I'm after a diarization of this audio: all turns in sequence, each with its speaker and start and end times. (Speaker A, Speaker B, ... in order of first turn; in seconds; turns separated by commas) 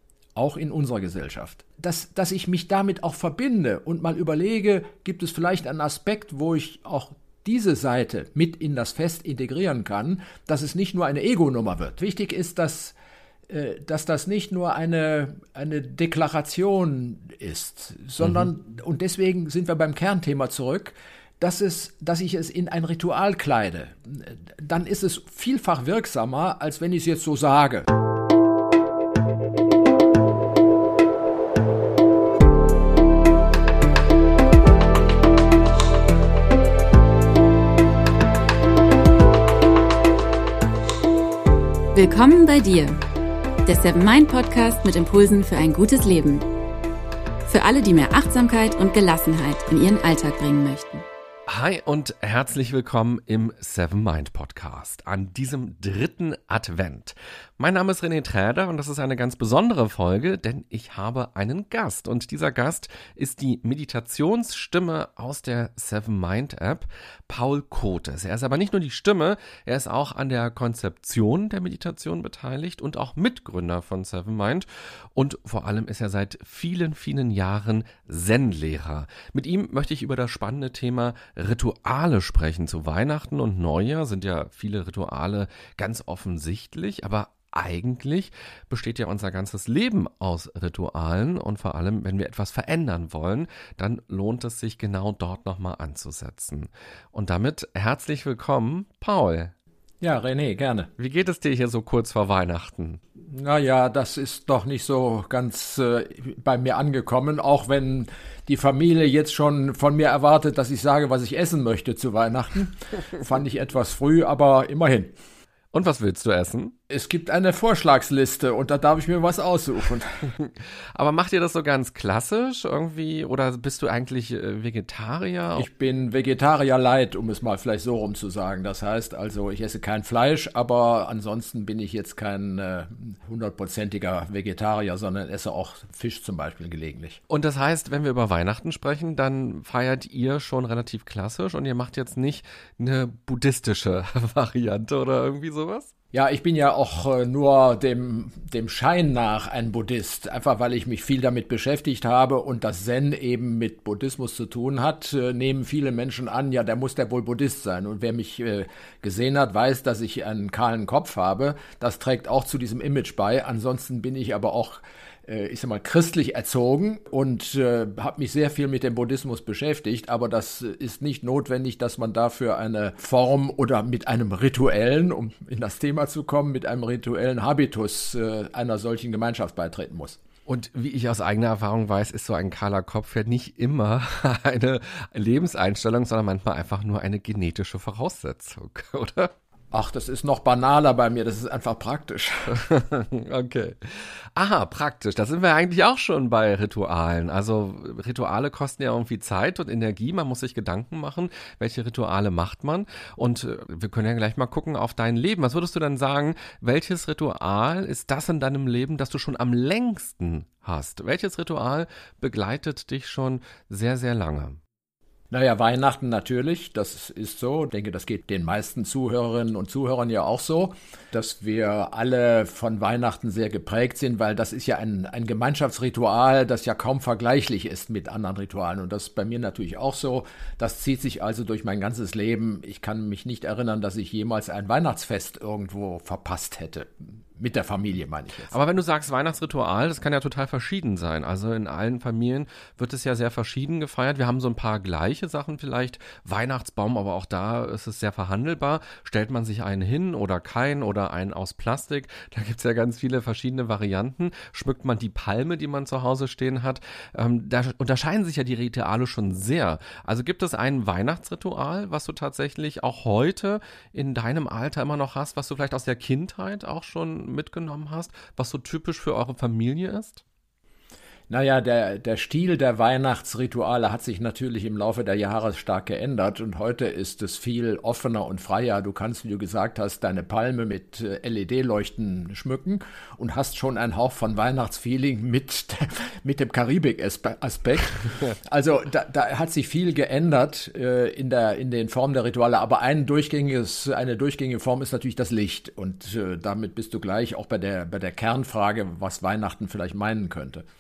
Speaker A: 0.4-12.9, Speaker A: 13.5-27.9, Speaker B: 18.2-18.5, Speaker C: 41.9-43.0, Speaker C: 43.7-46.5, Speaker C: 47.5-51.0, Speaker B: 51.5-99.5, Speaker A: 100.0-100.9, Speaker B: 101.0-103.0, Speaker A: 103.2-115.1, Speaker B: 115.7-116.8, Speaker A: 116.9-120.4, Speaker B: 120.4-125.7, Speaker A: 125.6-137.2, Speaker B: 137.3-145.9, Speaker A: 146.1-180.2, Speaker B: 180.5-189.3, Speaker A: 189.7-192.7, Speaker B: 192.5-214.6, Speaker A: 215.3-238.5, Speaker B: 238.5-270.2, Speaker A: 271.3-300.6